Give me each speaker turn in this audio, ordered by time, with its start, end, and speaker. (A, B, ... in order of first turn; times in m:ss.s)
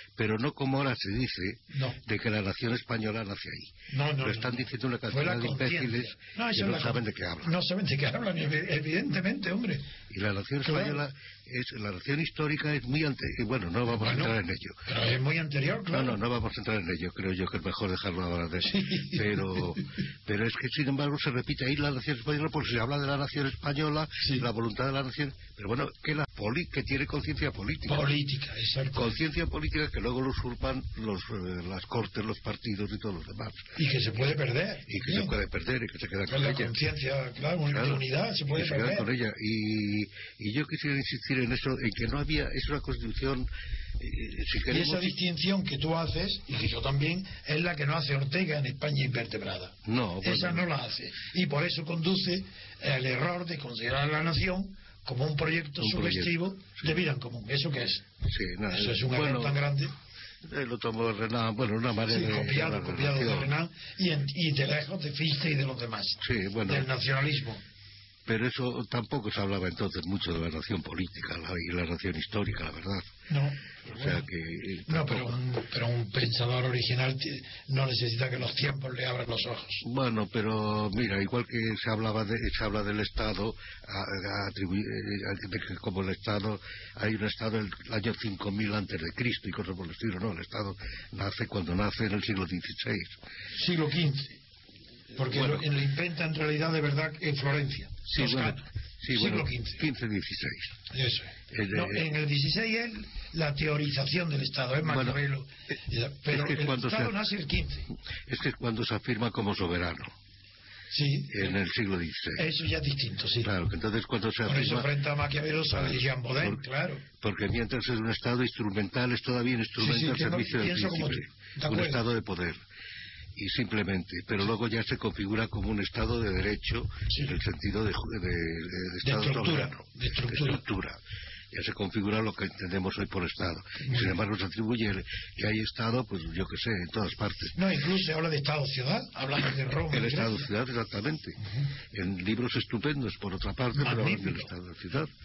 0:00.2-0:07.6 A
0:01.7-0:02.0 B
0:03.9-0:09.9 B
0:10.1-0:14.8 A
0:10.6-0:11.0 B
0:14.0-0:16.2 B
0:15.9-0:28.1 A
0:18.6-0:19.7 B
0:24.2-0:24.5 B
0:27.9-0:29.2 B
0:28.9-0:33.7 A
0:33.8-0:35.4 B
0:34.9-0:36.8 A
0:36.3-0:39.1 B
0:37.7-0:45.2 A
0:44.7-0:58.1 B
0:49.8-0:50.7 A
0:55.8-0:56.4 A
0:58.2-0:59.7 A
0:58.7-1:00.0 B
1:00.4-1:03.5 A
1:02.1-1:07.6 B
1:06.2-1:06.9 A
1:08.3-1:13.2 A
1:13.3-1:14.3 B
1:13.9-1:15.4 A
1:14.9-1:19.8 B
1:19.8-1:33.2 A
1:33.6-1:34.4 B
1:35.2-1:39.9 B
1:35.2-1:35.7 A
1:38.1-1:40.8 A
1:40.9-1:47.9 B
1:41.5-1:42.1 A
1:44.9-1:45.2 A
1:46.3-1:47.2 A
1:48.3-1:50.1 A
1:50.9-1:51.6 B
1:51.3-1:52.5 A
1:52.4-1:53.5 B
1:53.4-1:55.0 A
1:54.4-1:57.0 B
1:55.7-1:56.6 A
1:57.2-2:02.6 A
1:59.8-2:02.0 B
2:03.4-2:11.0 A
2:07.1-2:07.4 B
2:09.0-2:10.6 B
2:11.5-2:17.6 A
2:13.8-2:14.2 B
2:17.6-2:20.5 B
2:19.8-2:25.1 A
2:21.4-2:21.7 B
2:23.8-2:24.5 B